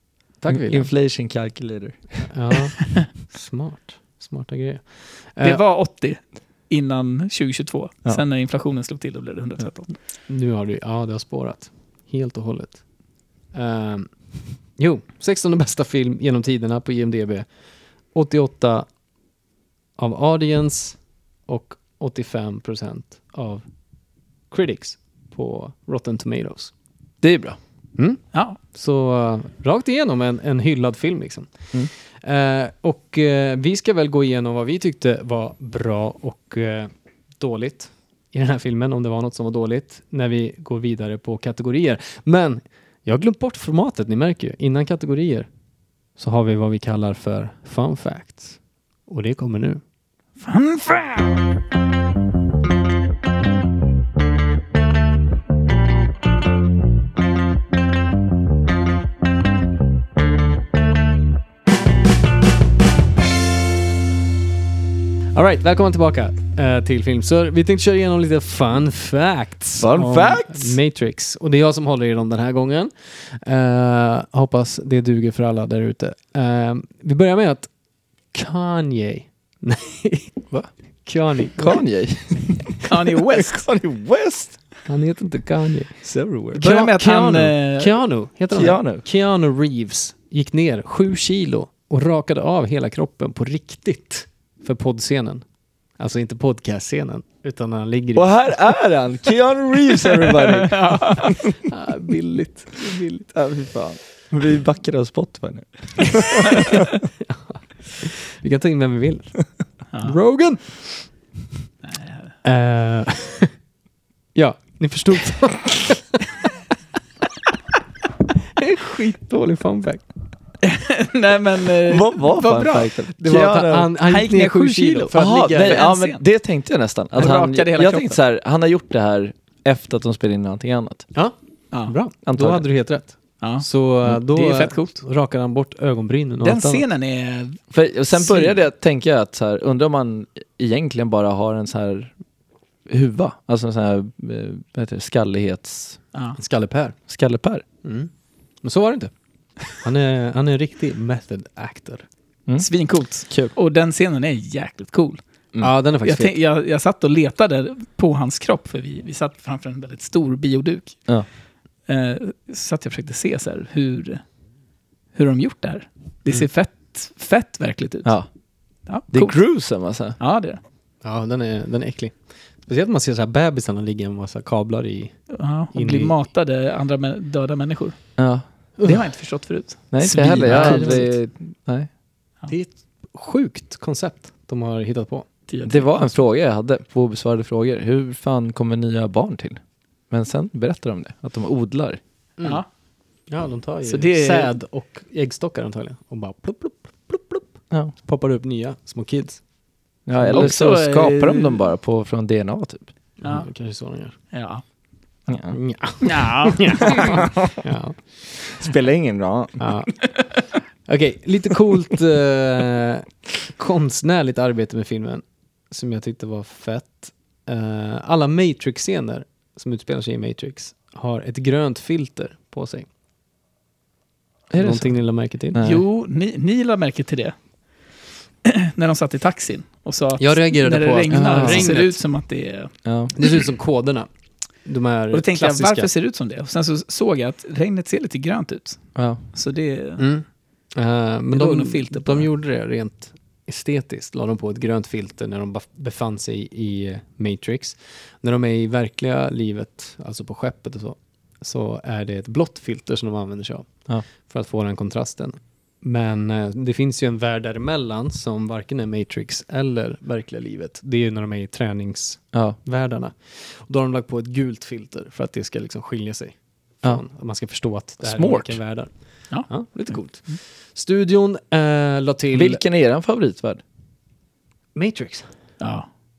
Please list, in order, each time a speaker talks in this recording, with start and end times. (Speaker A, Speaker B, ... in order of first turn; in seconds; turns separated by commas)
Speaker A: 0.4-0.9, Speaker B: 0.5-2.3, Speaker A: 2.3-5.6, Speaker C: 5.4-10.0, Speaker A: 10.3-12.8, Speaker A: 13.5-17.5, Speaker A: 18.1-18.9, Speaker A: 20.0-23.7, Speaker A: 24.5-26.7, Speaker B: 27.2-27.6, Speaker A: 28.0-45.5, Speaker C: 28.3-28.6, Speaker A: 46.1-49.8, Speaker C: 50.4-51.4, Speaker A: 65.3-77.7, Speaker B: 69.8-70.8, Speaker A: 78.3-80.3, Speaker A: 81.0-81.8, Speaker B: 81.5-82.7, Speaker C: 82.8-83.6, Speaker B: 83.3-84.7, Speaker A: 84.9-95.4, Speaker B: 86.0-86.6, Speaker C: 86.5-88.0, Speaker B: 88.5-89.0, Speaker A: 96.0-98.6, Speaker B: 98.1-101.5, Speaker C: 100.4-101.3, Speaker A: 101.7-103.2, Speaker B: 103.2-106.8, Speaker A: 107.3-109.5, Speaker C: 109.9-110.2, Speaker A: 110.0-111.1, Speaker C: 111.8-112.3, Speaker A: 112.4-113.5, Speaker A: 114.3-116.2, Speaker A: 118.6-120.0, Speaker C: 120.6-123.0, Speaker B: 121.8-123.9, Speaker A: 123.2-125.8, Speaker C: 124.0-126.2, Speaker B: 125.1-131.1, Speaker C: 127.1-128.2, Speaker A: 131.1-136.8, Speaker B: 132.2-132.7, Speaker C: 133.4-133.7, Speaker C: 134.3-134.9, Speaker C: 136.4-138.6, Speaker B: 137.7-142.1, Speaker B: 142.9-146.0, Speaker A: 146.4-146.9, Speaker B: 147.1-147.6, Speaker A: 147.8-148.1, Speaker A: 148.6-149.1, Speaker A: 149.6-152.0, Speaker B: 152.5-153.5, Speaker C: 152.6-155.2, Speaker A: 155.6-156.4, Speaker C: 156.0-161.1, Speaker C: 161.9-164.2, Speaker C: 165.1-168.2, Speaker B: 168.0-168.3, Speaker C: 168.8-170.6, Speaker B: 169.1-170.2, Speaker A: 171.0-176.2, Speaker C: 175.3-178.3, Speaker B: 178.2-178.4, Speaker A: 178.8-179.0, Speaker C: 178.8-181.2, Speaker B: 179.9-181.9, Speaker A: 180.0-181.1, Speaker A: 182.5-185.3, Speaker C: 185.5-186.2, Speaker B: 185.6-192.0, Speaker A: 192.4-192.6, Speaker A: 193.3-199.4, Speaker C: 193.8-194.5, Speaker B: 200.1-202.9, Speaker A: 200.1-200.5, Speaker C: 200.3-201.6, Speaker A: 203.2-204.2, Speaker C: 203.2-203.5, Speaker C: 204.3-204.6, Speaker B: 205.3-205.6, Speaker A: 205.5-208.2, Speaker C: 206.0-207.2, Speaker B: 208.5-209.7, Speaker A: 209.6-210.1, Speaker A: 210.8-222.9, Speaker B: 224.5-225.8, Speaker A: 224.6-225.6, Speaker C: 225.6-227.3, Speaker C: 228.4-233.4, Speaker A: 230.2-232.0, Speaker B: 231.1-231.8, Speaker B: 232.8-233.1, Speaker A: 233.1-234.1, Speaker A: 234.6-235.9, Speaker C: 235.1-240.0, Speaker B: 238.9-239.2, Speaker A: 240.0-272.6, Speaker C: 241.3-242.3, Speaker B: 262.3-262.6, Speaker B: 268.0-268.6, Speaker C: 269.3-270.4, Speaker B: 272.3-273.6, Speaker A: 274.7-275.3, Speaker C: 275.6-275.9